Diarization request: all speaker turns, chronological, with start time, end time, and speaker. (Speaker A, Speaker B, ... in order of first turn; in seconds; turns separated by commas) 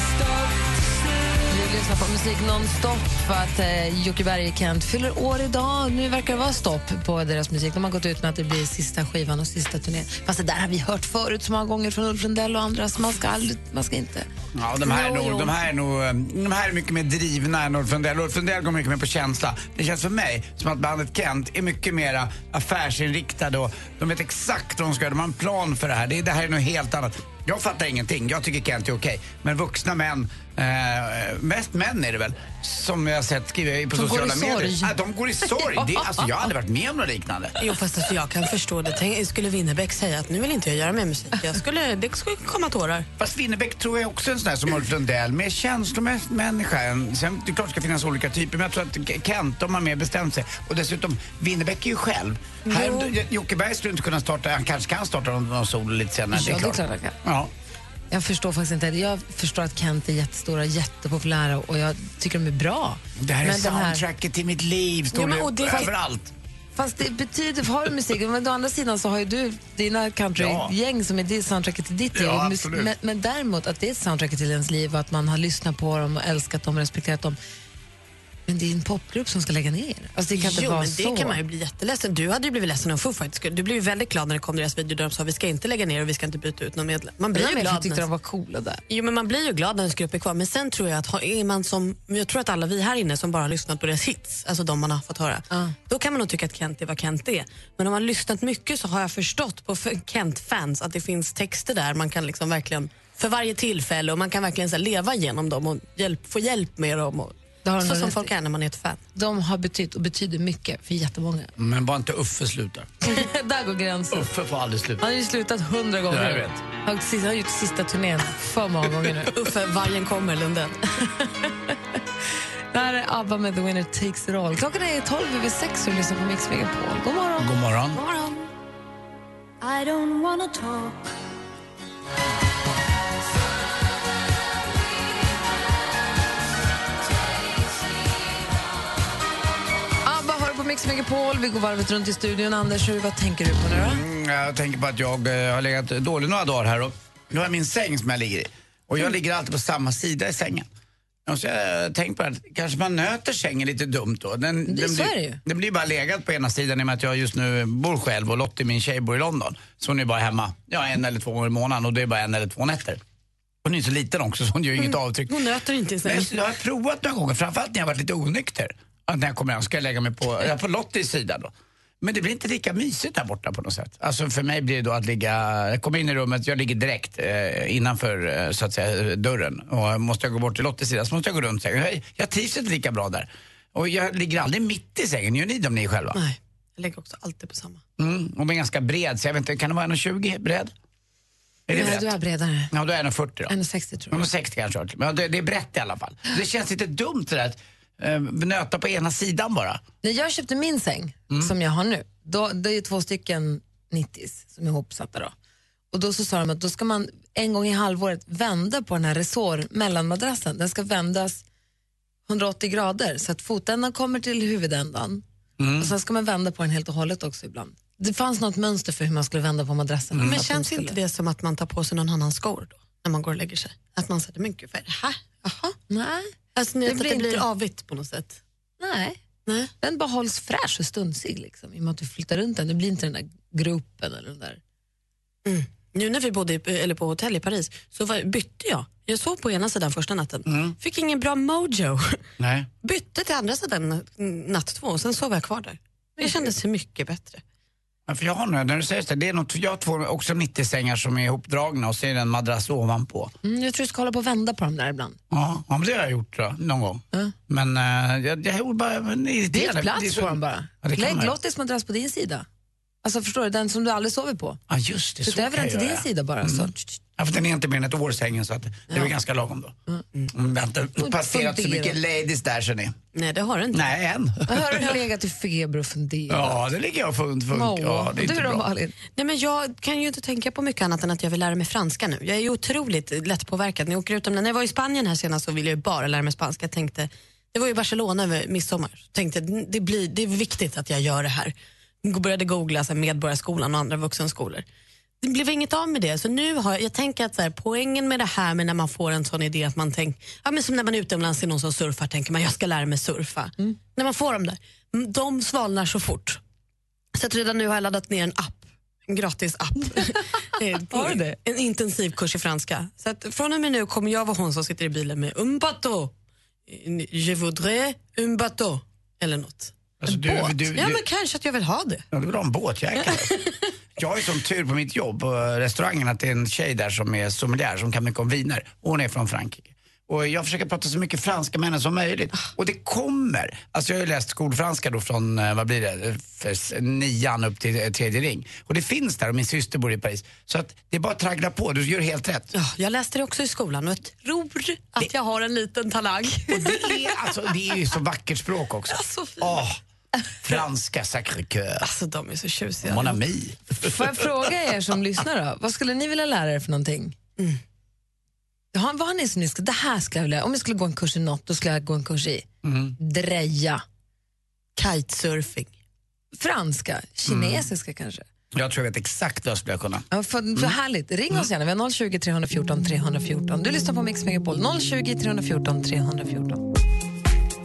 Speaker A: 1.5-14.3, Speaker B: 14.5-37.5, Speaker A: 14.8-15.6, Speaker A: 33.9-34.9, Speaker A: 35.5-36.4, Speaker C: 37.6-43.1, Speaker B: 43.2-57.5, Speaker C: 52.6-53.1, Speaker A: 56.3-57.1, Speaker A: 58.1-64.0, Speaker B: 63.2-66.3, Speaker C: 65.1-65.9, Speaker A: 66.8-77.4, Speaker B: 70.4-70.7, Speaker B: 72.1-72.9, Speaker A: 78.5-81.4, Speaker C: 80.3-88.0, Speaker A: 87.3-88.8, Speaker C: 88.9-109.0, Speaker A: 107.6-108.3, Speaker A: 109.1-111.5, Speaker B: 111.6-112.9, Speaker A: 113.0-114.3, Speaker B: 114.1-115.0, Speaker A: 115.0-119.3, Speaker B: 116.1-116.6, Speaker C: 119.3-121.3, Speaker A: 122.7-127.5, Speaker B: 127.4-128.0, Speaker C: 127.9-128.5, Speaker C: 129.6-130.7, Speaker A: 140.0-144.0, Speaker B: 143.8-150.7, Speaker B: 151.2-163.0, Speaker A: 154.7-155.4, Speaker B: 163.6-165.4, Speaker C: 164.8-166.3, Speaker B: 166.0-186.2, Speaker C: 186.1-187.8, Speaker B: 188.0-190.7, Speaker B: 191.7-192.1, Speaker A: 191.7-192.7, Speaker B: 192.7-193.5, Speaker A: 193.5-194.3, Speaker B: 194.1-199.8, Speaker A: 200.0-205.3, Speaker A: 205.9-211.4, Speaker A: 212.3-215.2, Speaker B: 215.6-215.9, Speaker A: 215.8-220.9, Speaker B: 220.1-220.4, Speaker C: 220.2-225.8, Speaker A: 225.9-226.3, Speaker C: 226.6-228.4, Speaker A: 226.8-227.4, Speaker A: 228.8-229.2, Speaker A: 229.8-234.6, Speaker C: 235.4-242.2, Speaker B: 240.4-240.8, Speaker B: 242.4-242.7, Speaker C: 242.8-247.4, Speaker B: 248.1-253.3, Speaker A: 253.4-255.2, Speaker B: 255.3-261.3, Speaker A: 259.5-262.4, Speaker A: 263.0-264.6, Speaker B: 264.7-269.8, Speaker A: 265.2-267.0, Speaker B: 270.3-272.9, Speaker A: 271.0-272.0, Speaker C: 273.1-273.9, Speaker B: 273.7-274.9, Speaker A: 274.5-276.6, Speaker B: 276.3-278.6, Speaker A: 277.5-278.9, Speaker C: 279.1-294.6, Speaker C: 295.2-306.4, Speaker C: 307.1-316.1, Speaker A: 310.9-311.4, Speaker C: 316.7-322.0, Speaker B: 320.0-321.0, Speaker B: 322.1-323.4, Speaker C: 323.0-323.6, Speaker B: 324.0-342.5, Speaker C: 342.5-347.1, Speaker B: 346.5-349.8, Speaker C: 348.9-349.6, Speaker B: 350.4-351.9, Speaker C: 351.8-353.2, Speaker B: 352.8-354.2, Speaker A: 353.7-357.1, Speaker A: 358.7-362.4, Speaker B: 362.6-362.9, Speaker A: 363.0-363.8, Speaker C: 364.8-365.7, Speaker A: 366.3-368.2, Speaker B: 367.3-367.7, Speaker B: 368.5-370.0, Speaker A: 370.1-376.6